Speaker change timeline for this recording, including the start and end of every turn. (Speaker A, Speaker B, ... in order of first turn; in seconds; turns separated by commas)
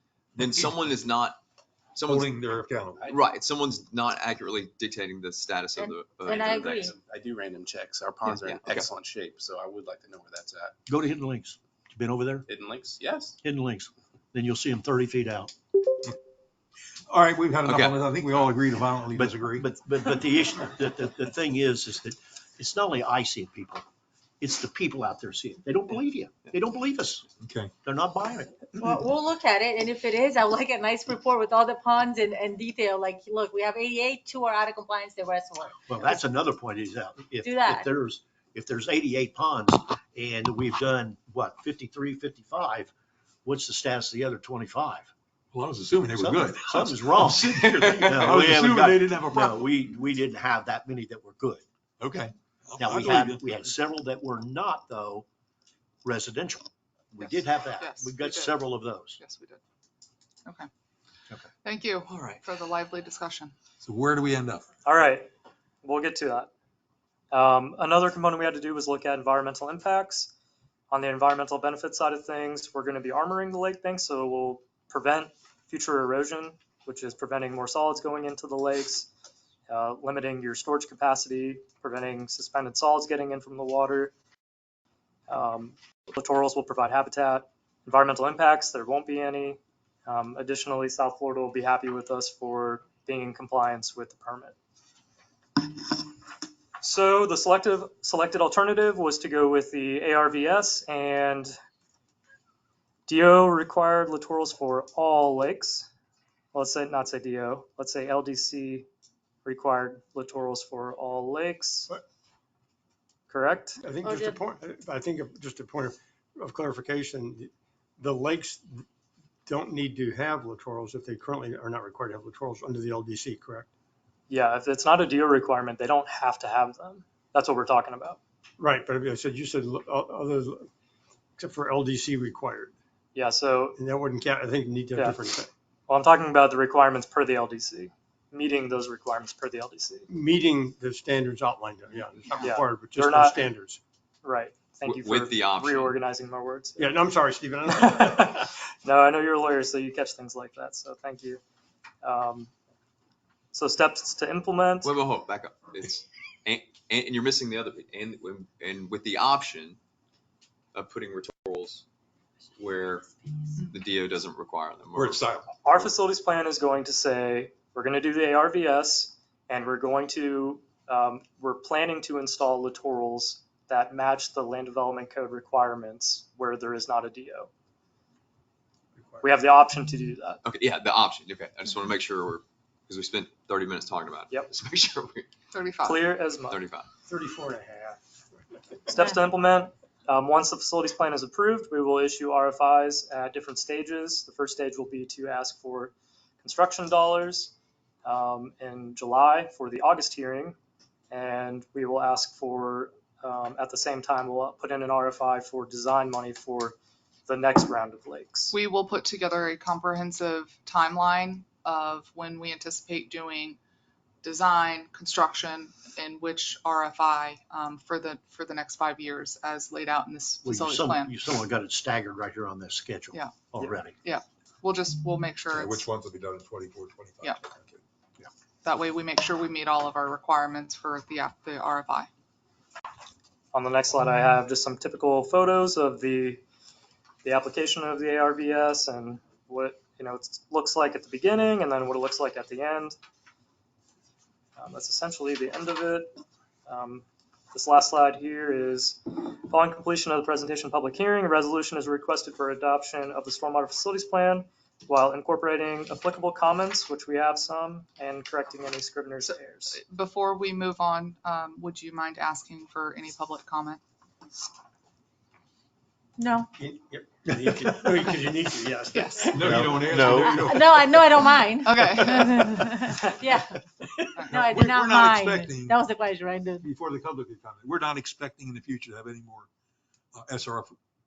Speaker A: 0.4-0.8, Speaker B: 0.4-1.4, Speaker B: 1.9-2.4, Speaker A: 2.0-3.1, Speaker C: 2.9-3.2, Speaker B: 3.1-6.9, Speaker D: 5.7-6.9, Speaker C: 6.2-10.7, Speaker B: 8.3-8.9, Speaker E: 10.9-12.5, Speaker C: 12.5-13.4, Speaker E: 13.4-15.5, Speaker A: 17.1-19.7, Speaker B: 17.6-18.0, Speaker E: 19.1-23.8, Speaker E: 24.4-27.2, Speaker A: 27.4-27.7, Speaker E: 27.8-28.7, Speaker D: 28.8-36.3, Speaker E: 35.9-42.9, Speaker D: 37.4-37.9, Speaker E: 43.4-45.1, Speaker A: 45.5-49.6, Speaker E: 46.1-51.6, Speaker B: 47.5-48.3, Speaker A: 52.0-53.6, Speaker E: 52.8-55.2, Speaker E: 56.0-59.2, Speaker F: 57.2-58.7, Speaker F: 59.2-59.6, Speaker F: 61.6-63.5, Speaker B: 62.1-62.4, Speaker A: 63.8-64.6, Speaker G: 64.8-65.3, Speaker G: 65.8-66.5, Speaker G: 67.3-70.3, Speaker G: 70.9-79.1, Speaker G: 79.7-84.1, Speaker G: 85.3-94.5, Speaker G: 96.8-101.5, Speaker G: 103.1-105.9, Speaker G: 106.5-108.9, Speaker G: 109.4-111.9, Speaker G: 113.3-113.8, Speaker H: 113.8-118.8, Speaker D: 114.0-114.4, Speaker H: 119.5-123.7, Speaker G: 124.3-128.2, Speaker H: 128.6-130.7, Speaker H: 131.4-132.7, Speaker G: 133.1-133.8, Speaker H: 133.8-135.5, Speaker G: 135.9-140.1, Speaker H: 140.1-143.8, Speaker G: 142.4-143.5, Speaker G: 144.2-147.0, Speaker B: 144.8-145.9, Speaker H: 146.8-148.3, Speaker G: 147.7-151.4, Speaker G: 152.0-152.5, Speaker G: 153.5-154.9, Speaker B: 154.8-159.8, Speaker B: 160.7-161.8, Speaker B: 162.6-165.9, Speaker A: 164.9-165.5, Speaker G: 165.6-177.5, Speaker H: 178.9-179.3, Speaker G: 179.2-180.4, Speaker B: 180.4-185.3, Speaker F: 185.5-186.1, Speaker G: 185.8-186.6, Speaker B: 186.5-186.9, Speaker H: 187.1-188.0, Speaker G: 188.9-197.5, Speaker G: 198.0-200.6, Speaker G: 201.1-206.8, Speaker G: 207.3-208.5, Speaker F: 208.5-213.6, Speaker F: 214.2-221.1, Speaker E: 220.4-223.9, Speaker F: 224.0-225.8, Speaker A: 225.5-227.8, Speaker F: 228.6-232.1, Speaker G: 233.5-236.4, Speaker G: 237.2-243.0, Speaker G: 244.6-259.8, Speaker F: 259.7-263.8, Speaker D: 266.2-266.5, Speaker H: 266.6-270.1, Speaker F: 268.9-269.4, Speaker A: 269.3-271.4, Speaker E: 269.6-270.4, Speaker D: 270.2-273.6, Speaker F: 271.4-272.6, Speaker F: 274.1-274.4, Speaker A: 274.2-275.9, Speaker D: 274.3-276.7, Speaker A: 276.6-279.5, Speaker A: 280.1-280.8